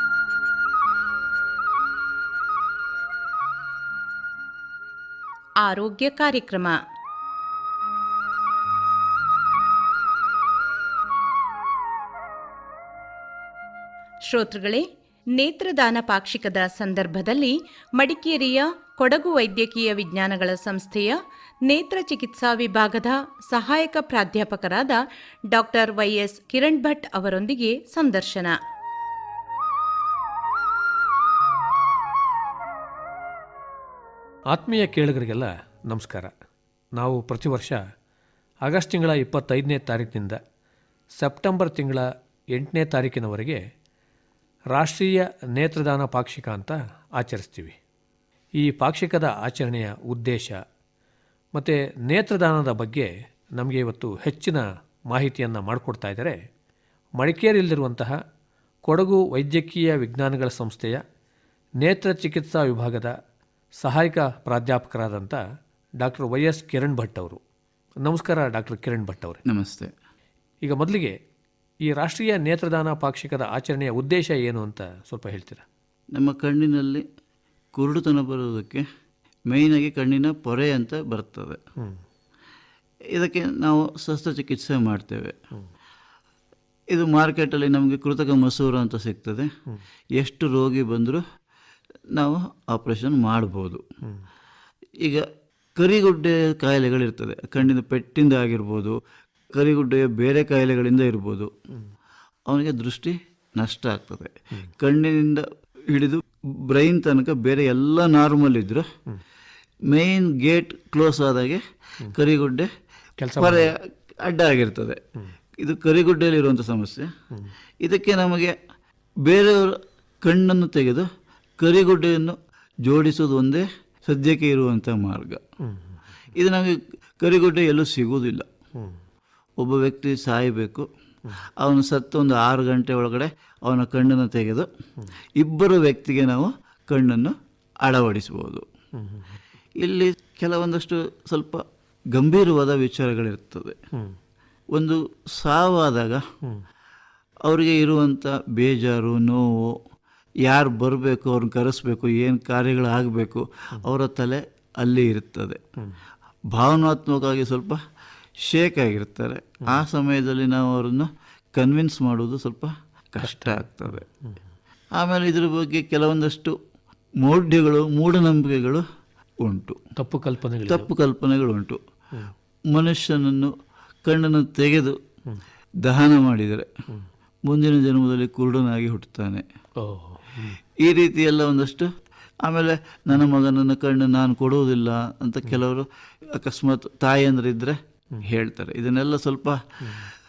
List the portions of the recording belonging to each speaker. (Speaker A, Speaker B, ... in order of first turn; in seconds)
Speaker A: 5.6-6.8, 14.3-28.6
Speaker B: 34.5-36.3, 37.0-37.8, 38.7-40.4, 41.2-43.6, 44.7-47.8, 48.6-50.6, 51.6-56.4, 57.2-58.2, 58.9-61.0, 61.8-63.1, 63.8-65.4, 66.0-67.4, 68.0-69.4, 70.7-71.2, 71.9-75.7, 113.2-113.7, 125.7-126.0, 139.0-139.4, 163.2-164.4, 170.0-170.9, 179.8-180.6
Speaker C: 69.5-69.9, 76.1-77.0, 77.8-78.9, 79.5-81.6, 83.1-85.4, 86.9-89.5, 90.2-91.2, 92.2-93.8, 95.0-99.0, 99.5-101.5, 102.5-108.9, 109.9-111.6, 112.1-112.7, 113.4-115.0, 115.6-117.1, 117.8-118.6, 119.2-121.1, 121.6-125.4, 126.3-128.5, 129.6-130.9, 131.6-134.7, 135.4-138.7, 139.8-143.8, 144.8-146.2, 147.5-149.8, 150.4-155.6, 156.5-157.8, 158.4-164.1, 165.0-166.6, 167.2-168.8, 169.4-169.8, 170.7-171.8, 172.7-173.5, 174.1-175.0, 175.8-176.7, 177.5-179.4, 180.8-181.9, 182.4-189.6